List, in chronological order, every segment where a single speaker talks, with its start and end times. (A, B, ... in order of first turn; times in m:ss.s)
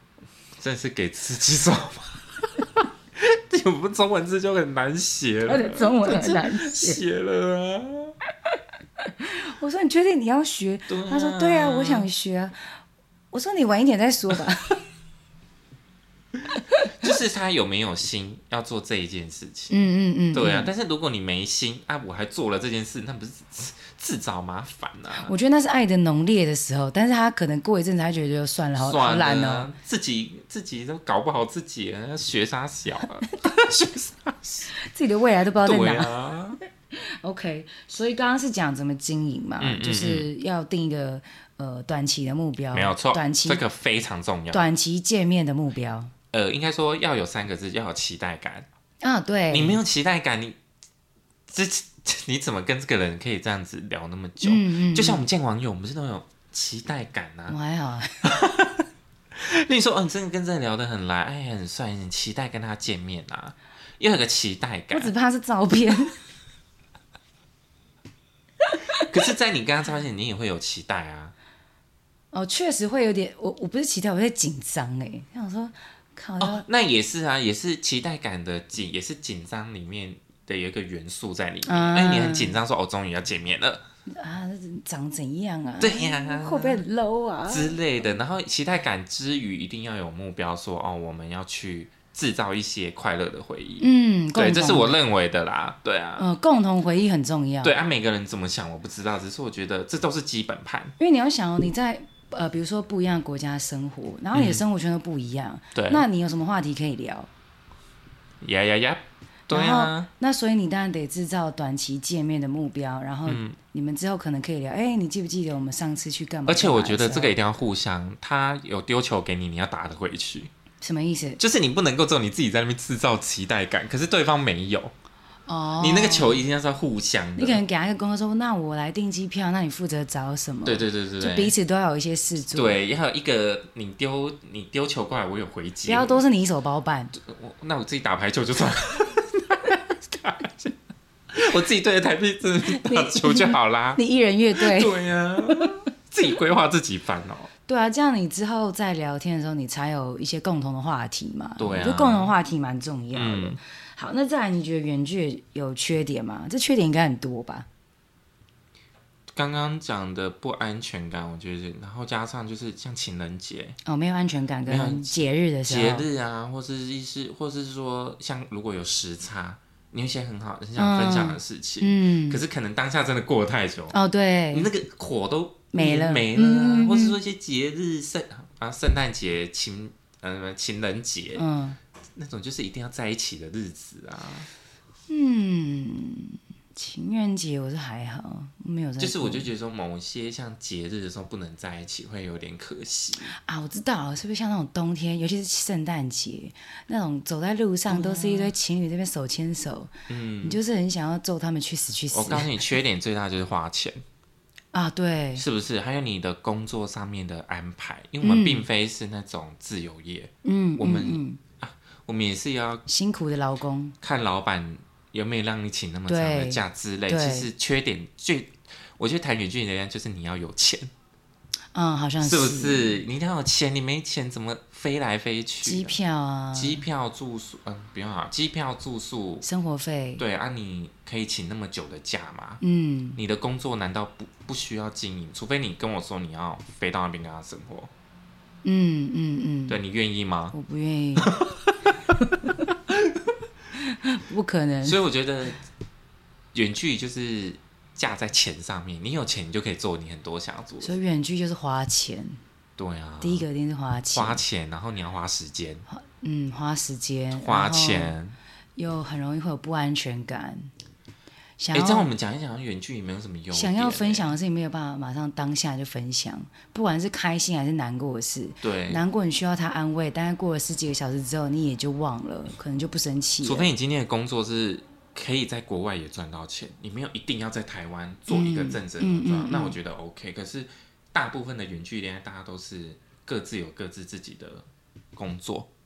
0:00.6-0:08.2 A
0:05.5-0:07.0 B
0:09.0-0:12.6 B
0:10.9-0:12.1 A
0:13.3-0:14.8 B
0:16.7-0:17.0 B
0:17.0-0:19.8 A
0:19.7-0:20.7 B
0:20.3-0:25.3 A
0:25.2-0:29.7 B
0:28.8-0:34.7 A
0:34.8-0:36.1 B
0:35.6-0:36.6 A
0:36.9-0:43.6 B
0:39.6-0:40.3 A
0:42.7-0:44.7 A
0:44.5-0:46.1 B
0:46.3-0:48.7 A
0:49.0-0:49.8 B
0:49.5-0:50.6 A
0:51.5-0:57.6 A
0:54.4-0:55.2 B
0:57.5-0:58.3 B
0:58.2-1:05.1 A
1:04.9-1:06.2 B
1:08.6-1:09.1 B
1:09.0-1:11.3 A
1:12.3-1:16.6 B
1:16.4-1:23.8 A
1:21.7-1:22.6 B
1:24.1-1:27.8 B
1:25.8-1:26.8 A
1:27.5-1:36.3 A
1:33.8-1:35.0 B
1:36.2-1:37.7 B
1:37.6-1:41.0 A
1:41.0-1:47.3 B
1:44.3-1:44.6 A
1:45.8-1:46.0 A
1:48.4-1:50.1 A
1:49.5-1:57.4 B
1:53.3-1:53.6 A
1:56.5-2:00.5 A
2:00.8-2:01.4 B
2:01.4-2:04.9 A
2:05.5-2:06.4 B
2:05.8-2:07.6 A
2:07.4-2:12.8 B
2:10.6-2:11.5 A
2:12.5-2:16.2 A
2:15.9-2:17.1 B
2:17.1-2:20.8 A
2:21.3-2:24.0 A
2:22.7-2:25.8 B
2:24.5-2:27.5 A
2:27.7-2:37.7 B
2:31.6-2:32.3 A
2:33.1-2:33.6 A
2:39.3-2:43.8 A
2:43.8-2:46.1 B
2:44.7-2:54.0 A
2:50.8-2:52.4 B
2:53.9-2:54.7 B
2:54.5-3:01.4 A
2:55.7-2:57.2 B
3:01.4-3:01.8 B
3:02.2-3:04.5 A
3:05.1-3:09.5 B
3:09.0-3:13.4 A
3:13.3-3:19.9 B
3:17.9-3:18.5 A
3:20.1-3:20.6 A
3:20.4-3:22.6 B
3:22.1-3:24.0 A
3:24.7-3:25.4 B
3:25.4-3:32.8 A
3:28.2-3:28.7 B
3:30.4-3:31.4 B
3:32.9-3:34.0 B
3:34.0-3:40.9 A
3:36.1-3:37.5 B
3:41.7-3:43.0 B
3:42.2-3:46.0 A
3:45.6-3:46.8 B
3:46.5-3:49.5 A
3:49.4-3:50.2 B
3:50.2-3:52.6 A
3:52.6-3:53.2 B
3:53.2-3:57.9 A
3:58.6-3:59.8 B
3:59.7-4:00.6 A
4:00.5-4:01.3 B
4:01.3-4:01.9 A
4:02.2-4:02.7 B
4:02.9-4:03.2 A
4:03.8-4:05.0 B
4:04.8-4:05.6 A
4:06.5-4:11.0 A
4:10.8-4:12.4 B
4:12.8-4:13.5 A
4:13.2-4:14.4 B
4:14.1-4:15.8 A
4:15.9-4:18.2 B
4:17.4-4:18.4 A
4:18.8-4:20.7 B
4:21.6-4:22.1 B
4:21.7-4:24.3 A
4:23.5-4:33.7 B
4:28.6-4:29.0 A
4:33.4-4:45.7 A
4:38.3-4:39.8 B